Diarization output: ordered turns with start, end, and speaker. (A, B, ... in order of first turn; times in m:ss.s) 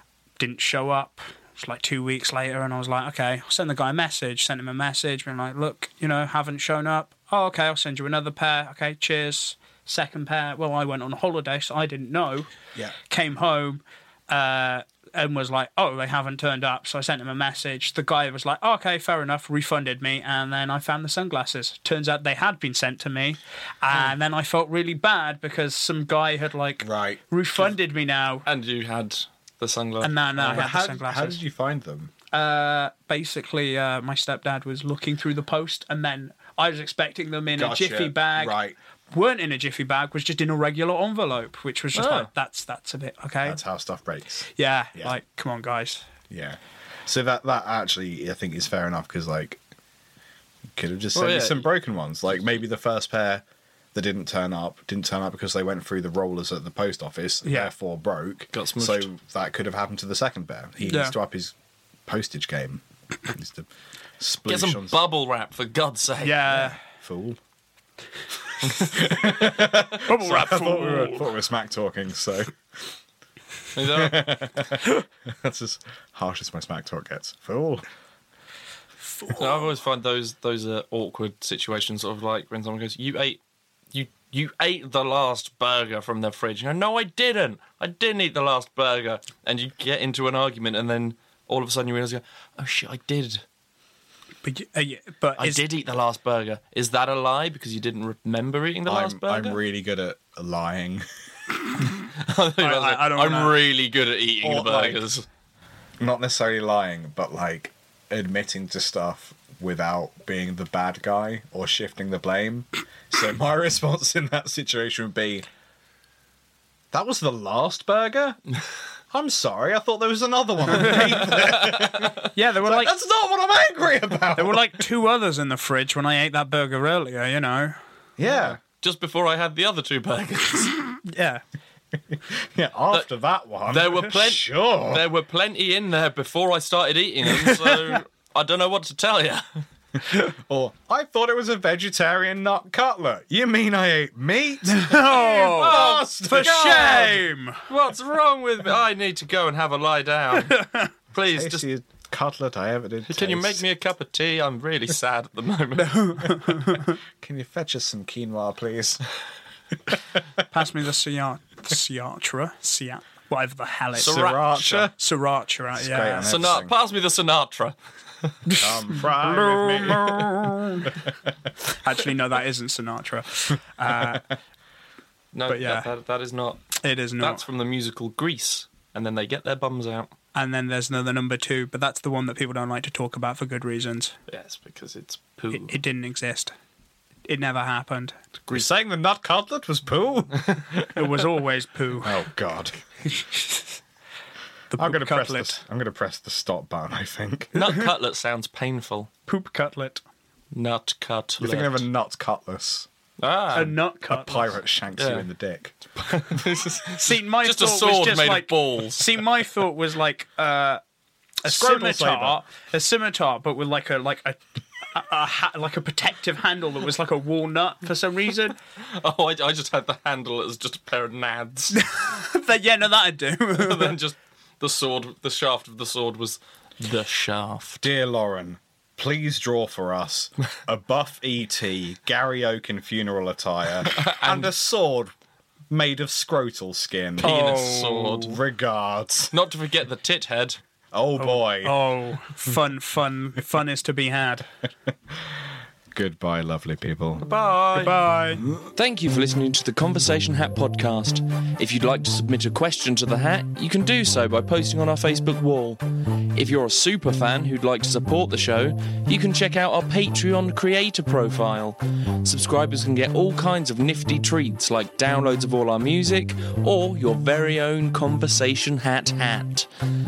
0:00.4-0:12.5 A
0:13.0-0:28.4 A
0:26.8-0:27.2 B
0:28.4-0:30.7 C
0:30.0-0:31.4 A
0:30.4-0:32.1 B
0:32.3-0:38.6 A
0:37.6-0:38.8 B
0:39.1-0:43.6 A
0:41.9-0:42.3 C
0:43.4-0:45.2 B
0:44.5-0:46.1 A
0:46.3-0:49.6 B
0:50.7-1:01.5 B
0:51.1-0:51.7 C
0:57.4-0:57.7 A
0:58.5-0:59.1 C
1:00.8-1:01.2 A
1:02.0-1:03.7 B
1:04.2-1:05.0 B
1:04.5-1:06.7 C
1:06.2-1:06.8 A
1:06.6-1:07.4 B
1:08.7-1:12.9 B
1:10.0-1:11.3 A
1:13.7-1:14.4 C
1:13.8-1:17.8 B
1:19.4-1:23.4 C
1:23.9-1:33.4 C
1:34.4-1:35.6 A
1:35.4-1:39.6 C
1:38.8-1:41.0 B
1:42.1-1:45.2 C
1:42.6-1:43.6 A
1:44.4-1:45.1 B
1:46.0-1:55.4 B
1:56.9-1:58.4 B
1:59.1-2:04.7 B
2:01.6-2:02.1 C
2:02.3-2:03.0 A
2:04.3-2:07.8 A
2:08.2-2:08.6 B
2:08.2-2:10.8 C
2:11.0-2:11.4 A
2:12.1-2:15.1 B
2:13.7-2:19.4 C
2:17.3-2:18.0 A
2:20.0-2:27.2 B
2:24.6-2:27.6 A
2:25.2-2:26.9 C
2:27.7-2:31.6 C
2:30.4-2:30.9 A
2:31.3-2:33.6 B
2:33.1-2:36.3 C
2:35.8-2:37.0 A
2:37.2-2:39.0 B
2:40.5-2:46.3 A
2:43.9-2:44.9 C
2:44.0-2:44.9 B
2:45.7-2:46.7 B
2:46.2-2:48.3 C
2:48.5-2:50.9 A
2:48.6-2:50.9 B
2:51.7-2:54.3 A
2:55.3-2:56.6 C
2:55.5-2:55.9 A
2:56.8-2:57.4 A
2:57.2-3:00.1 C
3:00.3-3:04.2 A
3:04.3-3:05.8 C
3:05.5-3:06.5 A
3:07.3-3:08.2 A
3:08.5-3:10.6 B
3:10.9-3:12.2 A
3:12.0-3:12.8 B
3:13.0-3:13.8 A
3:14.7-3:15.6 A
3:14.8-3:17.5 B
3:17.5-3:19.1 C
3:17.6-3:17.8 A
3:19.3-3:20.0 A
3:20.5-3:21.8 C
3:21.4-3:22.9 B
3:23.2-3:23.8 C
3:23.5-3:24.5 A
3:24.1-3:25.8 B
3:25.0-3:25.2 C
3:26.0-3:29.2 C
3:27.0-3:30.8 A
3:31.4-3:38.6 A
3:31.4-3:32.4 B
3:38.8-3:41.8 C
3:41.7-3:44.0 A
3:43.5-3:47.8 C
3:47.8-3:55.1 B
3:53.8-3:54.5 C
3:55.7-3:57.4 B
3:57.2-3:58.3 A
3:57.2-3:58.4 C
3:58.2-3:59.3 B
3:59.3-4:00.6 C
4:00.9-4:01.8 B
4:01.2-4:04.5 A
4:05.9-4:07.3 B
4:07.2-4:08.0 C
4:07.7-4:08.4 A
4:08.7-4:15.8 C
4:16.3-4:29.7 C